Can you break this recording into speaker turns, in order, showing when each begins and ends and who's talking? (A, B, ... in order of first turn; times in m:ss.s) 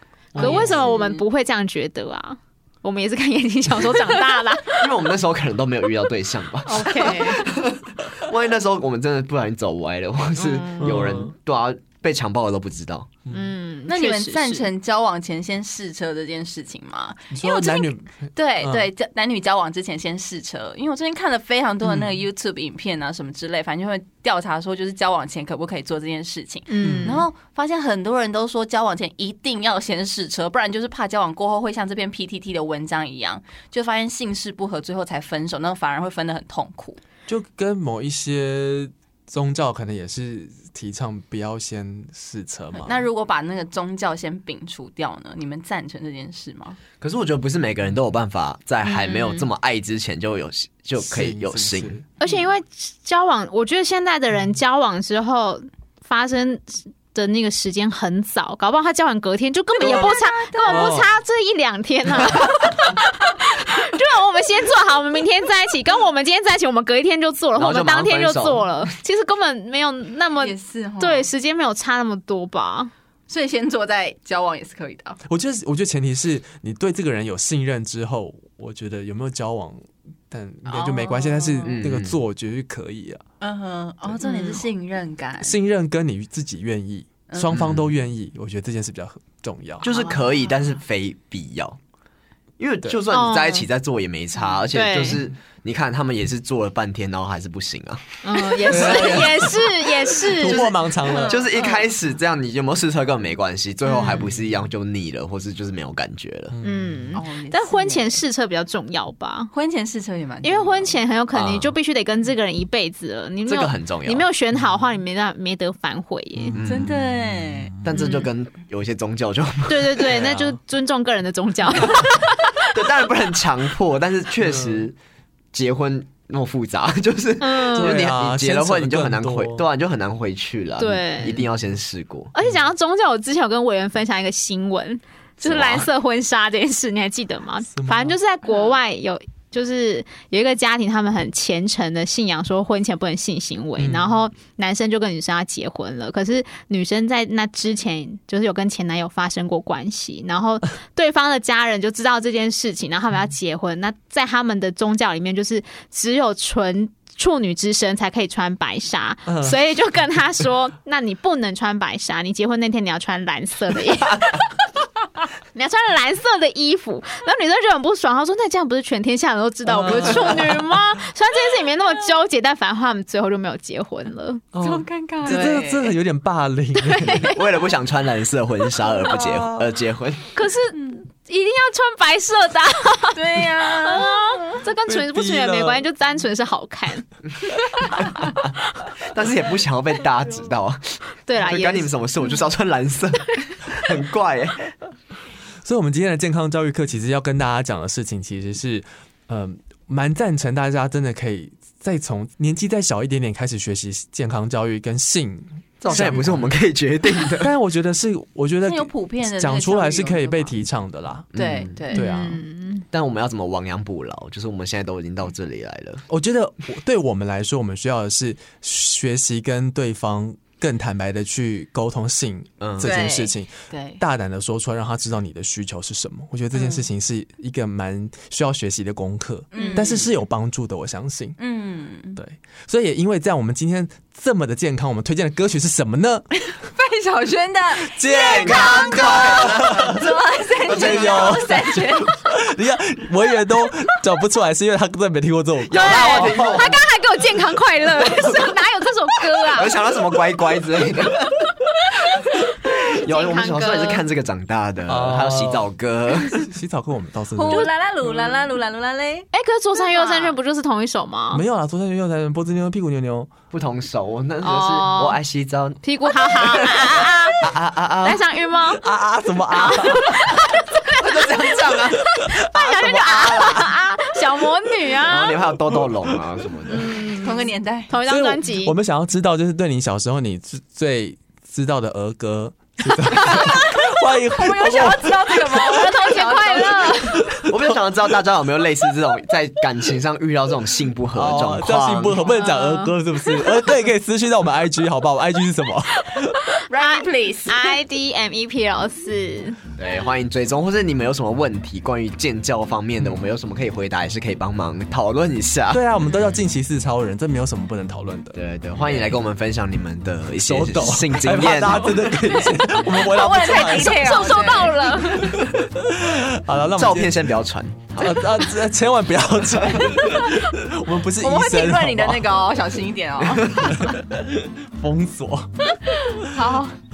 0:00.4-0:00.7 A
0:00.4-0:00.9 B
0:00.4-0:04.9 C
0:00.4-0:01.2 D
0:04.8-0:13.1 A
0:06.6-0:07.5 C
0:07.0-0:07.5 D
0:10.4-0:11.0 C
0:10.8-0:11.3 B
0:13.3-0:14.7 C
0:13.9-0:37.0 D
0:17.3-0:18.9 B
0:21.8-0:22.2 B
0:26.7-0:27.2 C
0:26.8-0:27.2 B
0:37.3-0:43.0 B
0:42.7-0:46.8 D
0:47.0-0:52.0 A
0:48.9-0:49.4 D
0:51.0-0:52.1 B
0:52.2-1:12.9 C
0:59.8-1:00.9 D
1:00.7-1:01.1 B
1:07.6-1:08.9 A
1:10.4-1:11.3 D
1:13.3-1:15.2 D
1:15.2-1:23.2 B
1:20.7-1:21.8 D
1:21.6-1:22.2 A
1:23.4-1:25.6 D
1:24.2-1:24.6 C
1:25.4-1:29.9 B
1:27.3-1:27.6 D
1:27.5-1:27.9 A
1:29.8-1:30.6 D
1:29.8-1:31.8 A
1:32.6-1:39.6 A
1:33.1-1:33.7 C
1:34.4-1:34.6 D
1:34.7-1:35.2 C
1:38.2-1:40.8 C
1:38.6-1:41.4 B
1:41.0-1:41.9 D
1:41.3-1:46.6 A
1:43.9-1:44.2 C
1:44.0-1:44.2 D
1:46.5-1:47.2 B
1:46.6-1:49.5 C
1:47.1-1:48.2 D
1:49.5-1:51.0 D
1:50.4-1:56.6 C
1:51.3-1:51.7 A
1:53.5-1:54.3 A
1:56.5-1:56.9 A
1:56.6-1:57.8 D
1:57.8-2:00.2 A
1:57.9-1:58.3 C
1:59.7-2:02.7 C
2:00.1-2:00.6 B
2:02.6-2:05.0 A
2:04.4-2:04.9 B
2:05.5-2:12.3 A
2:07.4-2:08.0 C
2:07.7-2:09.6 B
2:10.8-2:11.4 C
2:12.3-2:44.4 C
2:15.4-2:15.9 A
2:17.8-2:18.2 B
2:23.8-2:24.2 B
2:39.3-2:39.6 B
2:45.6-2:54.4 C
2:49.7-2:50.7 B
2:49.8-2:50.4 A
2:54.5-2:57.4 B
2:54.6-2:55.9 D
2:55.3-2:55.6 C
2:56.8-2:57.4 C
2:57.2-3:00.2 A
2:59.1-2:59.7 B
3:00.3-3:07.1 C
3:00.7-3:01.0 D
3:03.1-3:04.6 D
3:04.9-3:05.9 B
3:08.0-3:08.4 C
3:08.1-3:14.7 A
3:11.2-3:11.9 C
3:15.6-3:26.5 B
3:25.8-3:27.5 A
3:27.4-3:31.3 B
3:28.6-3:30.6 D
3:31.3-3:31.8 A
3:31.3-3:32.1 D
3:31.9-3:32.4 B
3:31.9-3:32.9 C
3:32.9-3:36.0 A
3:36.1-3:51.4 B
3:42.6-3:43.0 A
3:42.8-3:44.0 D
3:49.5-3:50.1 D
3:49.7-3:50.0 A
3:51.4-3:52.2 D
3:52.2-3:56.3 B
3:56.6-4:02.2 D
3:57.8-4:00.0 B
3:58.0-4:00.1 A
4:00.6-4:01.6 A
4:00.6-4:06.7 B
4:05.7-4:06.8 A
4:05.8-4:09.7 C
4:08.0-4:08.6 A
4:09.5-4:11.5 A
4:12.9-4:14.0 C
4:12.9-4:16.5 A
4:14.9-4:15.7 B
4:16.3-4:18.3 B
4:17.4-4:20.4 D
4:19.3-4:21.4 C
4:21.3-4:23.3 B
4:23.5-4:28.2 A
4:24.4-4:25.2 C
4:25.8-4:27.5 C
4:28.0-4:28.8 C
4:28.8-4:30.2 B
4:29.5-4:31.0 C
4:30.9-4:33.7 A
4:31.7-4:35.4 C
4:35.0-4:36.9 A
4:35.7-4:36.2 B
4:36.7-4:38.7 C
4:37.2-4:37.9 D
4:38.1-4:45.9 B
4:43.1-4:47.2 D
4:45.5-4:47.3 C
4:47.1-4:47.8 B
4:47.4-4:52.2 A
4:51.1-4:56.4 B
4:52.2-4:52.9 C
4:56.7-4:57.8 D
4:56.8-4:59.6 C
4:59.8-5:05.8 A
5:05.7-5:08.4 B
5:08.3-5:12.0 A
5:10.4-5:14.1 B
5:11.9-5:15.4 D
5:13.9-5:15.4 C
5:15.2-5:17.3 B
5:16.8-5:18.2 A
5:18.0-5:22.5 B
5:19.7-5:20.5 D
5:21.2-5:23.8 D
5:23.6-5:25.7 B
5:25.8-5:26.8 D